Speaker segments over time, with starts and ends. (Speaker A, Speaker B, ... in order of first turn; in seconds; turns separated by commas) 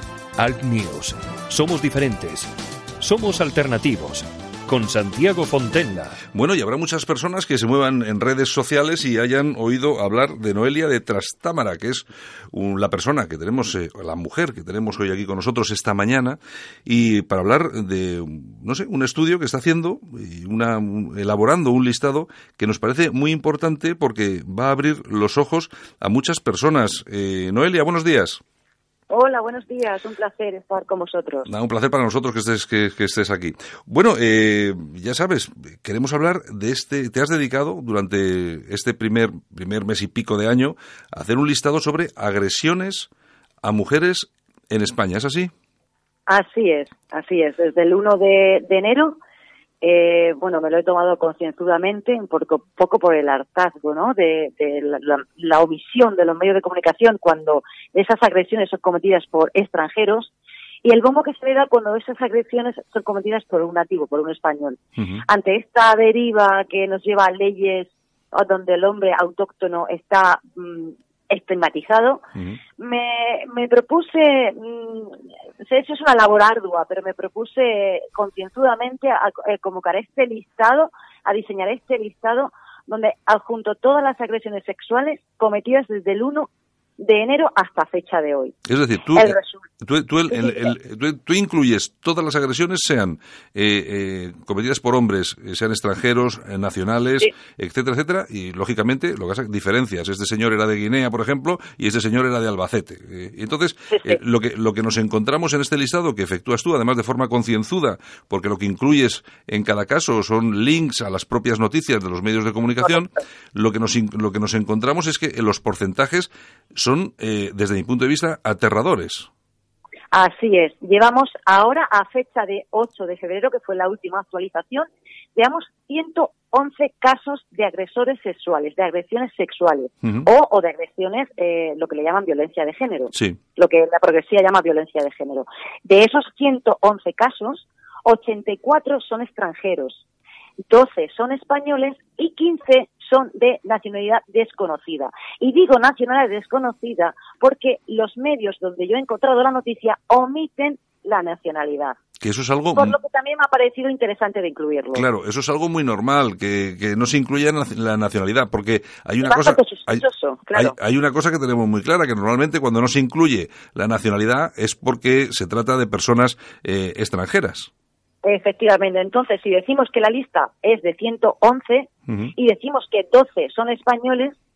Speaker A: 0.4-6.2, Speaker B: 6.3-28.4, Speaker C: 29.1-31.5, Speaker B: 31.4-43.1, Speaker B: 43.6-45.5, Speaker C: 46.3-49.1, Speaker C: 49.8-72.2, Speaker B: 65.0-65.2, Speaker B: 72.3-72.6, Speaker C: 72.8-88.5, Speaker B: 88.7-119.3, Speaker C: 89.1-89.6, Speaker C: 90.3-90.7, Speaker C: 103.9-104.2, Speaker C: 120.1-140.0, Speaker C: 140.6-152.0, Speaker B: 152.2-153.0, Speaker C: 152.8-155.1, Speaker B: 154.9-167.7, Speaker C: 159.2-160.7, Speaker C: 168.2-174.3